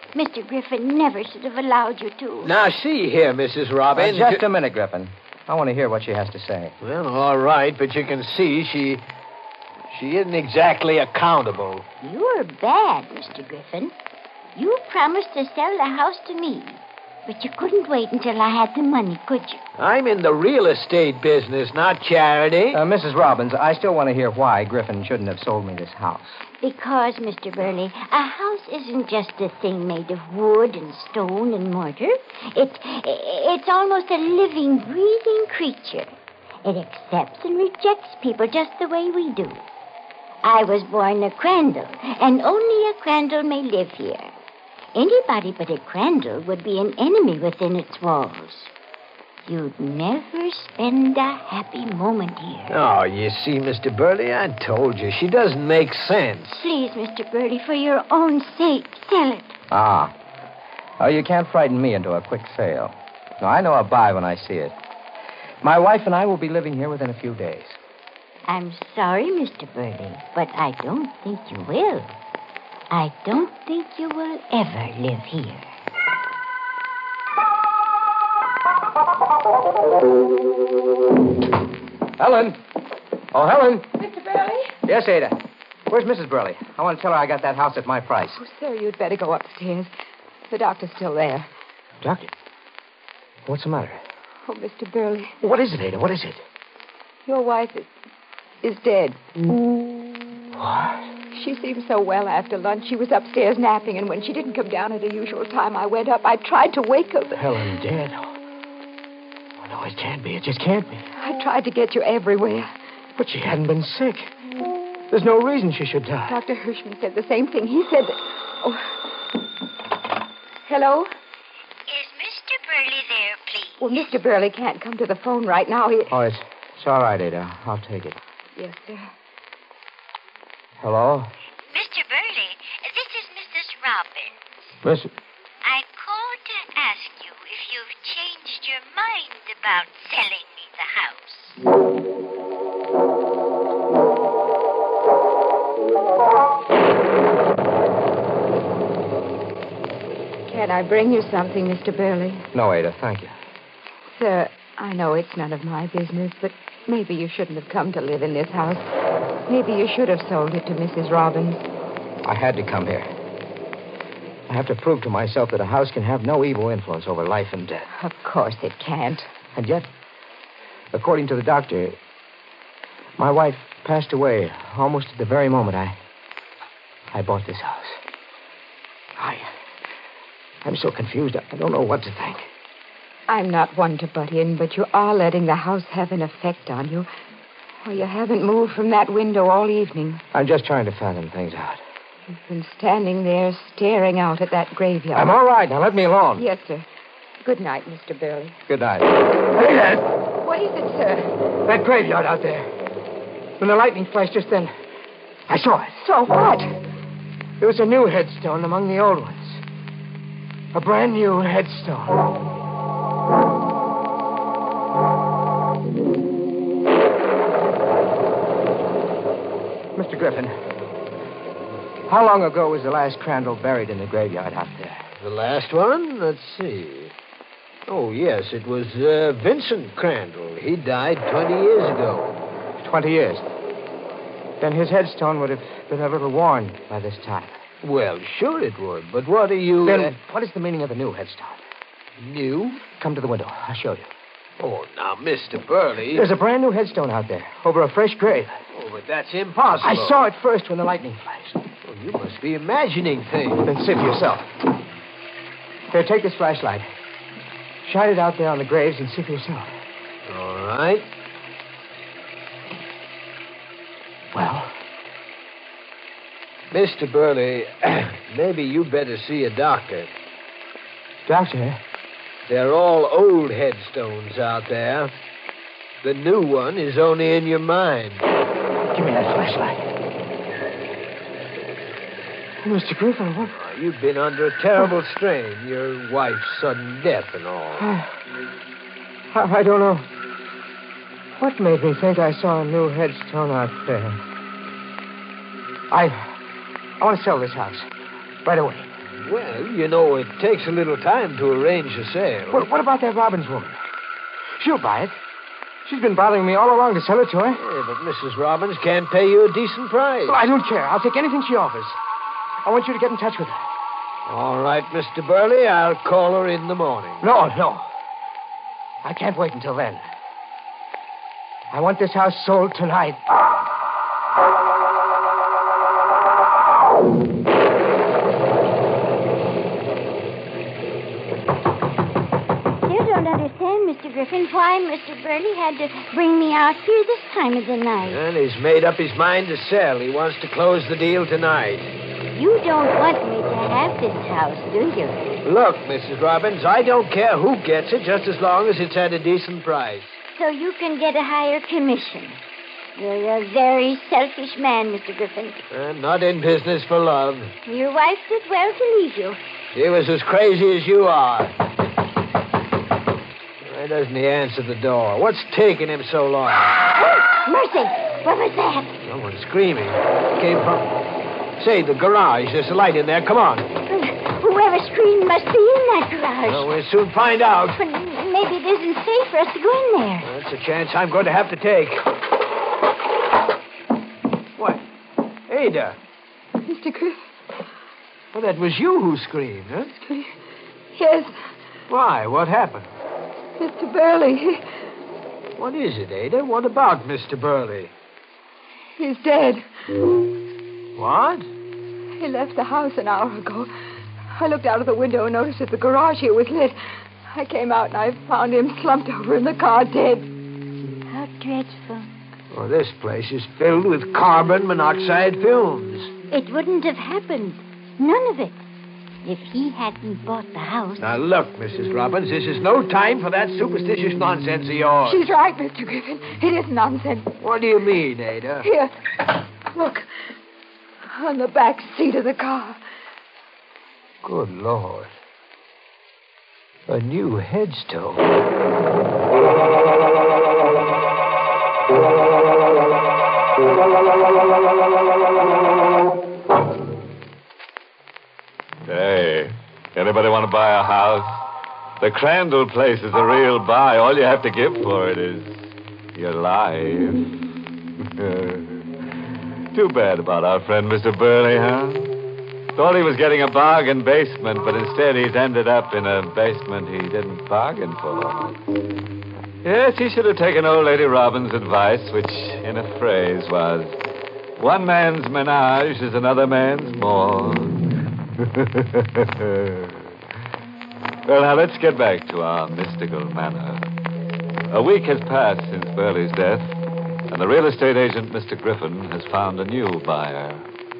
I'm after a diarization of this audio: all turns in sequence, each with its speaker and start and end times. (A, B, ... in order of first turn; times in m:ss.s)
0:00.1-0:02.5 A
0:02.4-0:04.4 B
0:03.9-0:06.7 C
0:06.8-0:09.0 B
0:09.9-0:11.8 B
0:12.0-0:13.9 A
0:14.6-0:19.6 A
0:19.8-0:22.8 B
0:22.7-0:26.4 C
0:26.6-0:36.1 A
0:36.6-0:39.6 A
0:40.4-0:44.3 A
0:44.9-0:48.7 A
0:49.4-0:52.8 A
0:52.7-0:56.6 B
0:56.6-0:59.6 A
0:59.7-1:00.1 C
1:01.0-1:04.7 C
1:05.6-1:07.8 C
1:08.5-1:12.1 A
1:12.9-1:15.7 A
1:22.2-1:22.6 C
1:23.3-1:24.0 C
1:24.0-1:24.7 D
1:24.8-1:25.4 C
1:25.9-1:28.4 C
1:28.4-1:29.9 D
1:30.5-1:31.5 D
1:32.0-1:32.3 C
1:33.4-1:34.0 C
1:34.5-1:35.3 D
1:35.4-1:36.4 C
1:37.2-1:37.9 D
1:38.6-1:39.2 D
1:40.6-1:41.0 C
1:41.3-1:47.4 D
1:47.3-1:48.3 C
1:49.6-1:51.0 C
1:51.2-1:52.7 D
1:53.2-1:54.3 C
1:55.1-1:56.4 C
1:56.3-1:59.0 D
2:00.6-2:01.1 D
2:01.9-2:04.0 A
2:03.8-2:06.1 D
2:06.1-2:08.2 C
2:08.6-2:09.1 D
2:10.8-2:11.3 C
2:11.7-2:14.7 A
2:14.8-2:15.1 C
2:15.6-2:21.6 A
2:30.5-2:32.4 D
2:32.5-2:33.3 C
2:34.1-2:38.9 D
2:39.5-2:41.6 D
2:42.2-2:43.1 C
2:44.5-2:47.8 C
2:48.0-2:49.3 D
2:49.5-2:49.9 C
2:50.9-2:52.0 C
2:53.2-2:56.0 C
2:57.1-2:58.0 C
2:59.2-2:59.5 C
3:00.6-3:02.5 C
3:03.3-3:07.1 D
3:07.8-3:10.2 D
3:10.3-3:11.8 C
3:12.4-3:15.3 D
3:15.1-3:16.4 C
3:16.4-3:16.8 D
3:17.4-3:18.6 D
3:18.7-3:20.1 C
3:20.4-3:21.3 D
3:21.6-3:22.7 C
3:23.6-3:24.7 C
3:25.5-3:26.0 C
3:26.0-3:26.7 D
3:27.6-3:29.6 C
3:30.7-3:32.3 C
3:39.9-3:40.5 C
3:42.1-3:45.0 C
3:45.2-3:47.1 B
3:47.9-3:52.4 B
3:52.8-3:53.4 C
3:54.6-3:57.5 C
3:57.8-4:00.1 B
3:59.8-4:01.6 C
4:02.2-4:02.8 B
4:02.9-4:04.1 C
4:04.6-4:06.2 B
4:06.1-4:08.6 C
4:08.7-4:10.2 B
4:09.8-4:11.6 C
4:11.8-4:13.7 B
4:13.6-4:14.5 C
4:15.9-4:16.9 C
4:17.8-4:19.7 C
4:20.2-4:21.0 B
4:24.3-4:24.7 C
4:26.7-4:30.1 B
4:31.2-4:31.8 C
4:32.5-4:35.1 B
4:36.0-4:38.2 B
4:38.9-4:39.8 C
4:42.6-4:43.6 C
4:43.5-4:47.8 B
4:47.8-4:48.1 C
4:49.3-4:50.1 C
4:51.3-4:54.2 C
4:55.9-4:56.3 C
4:57.0-4:57.9 C
4:58.4-4:58.9 C
4:59.2-5:02.7 B
5:02.5-5:03.8 C
5:04.6-5:05.2 C
5:05.8-5:07.6 C
5:07.6-5:10.4 B
5:10.3-5:12.0 C
5:12.6-5:13.6 C
5:14.3-5:17.2 B
5:17.2-5:17.9 C
5:19.0-5:20.0 C
5:21.7-5:23.2 C
5:32.8-5:38.2 A
5:38.0-5:41.9 B
5:42.3-5:45.3 A
5:45.4-5:50.2 B
5:50.3-5:52.4 A
5:53.0-5:55.6 A
5:55.7-5:57.5 B
5:57.6-5:59.4 A
5:59.7-6:01.5 B
6:03.6-6:06.8 B
6:07.0-6:09.0 A
6:09.0-6:10.9 B
6:11.6-6:13.7 B
6:13.9-6:16.7 A
6:16.4-6:17.8 B
6:17.8-6:20.3 A
6:20.2-6:22.1 B
6:24.6-6:24.8 B
6:25.5-6:26.0 B
6:26.6-6:27.2 D
6:28.3-6:29.9 B
6:30.0-6:30.3 D
6:30.9-6:31.3 D
6:31.9-6:32.9 B
6:33.6-6:34.6 D
6:35.6-6:37.9 B
6:39.0-6:39.7 D
6:41.0-6:41.5 B
6:42.2-6:43.7 D
6:44.4-6:46.8 D
6:47.3-6:50.3 D
6:51.1-6:52.1 A
6:52.5-6:56.1 B
6:56.3-6:58.7 A
6:59.2-7:01.1 A
7:01.0-7:05.2 B
7:05.0-7:07.3 D
7:07.4-7:08.7 B
7:08.6-7:08.9 D
7:09.6-7:10.1 D
7:11.1-7:12.8 D
7:14.2-7:15.1 B
7:16.9-7:18.2 B
7:28.8-7:31.4 E
7:32.0-7:37.3 E
7:38.0-7:38.9 E
7:39.7-7:42.1 E
7:42.7-7:48.6 E
7:49.6-7:54.0 E
7:54.6-7:57.8 E
7:58.4-8:00.1 E
8:01.2-8:03.8 E
8:04.7-8:06.7 E
8:07.3-8:10.7 E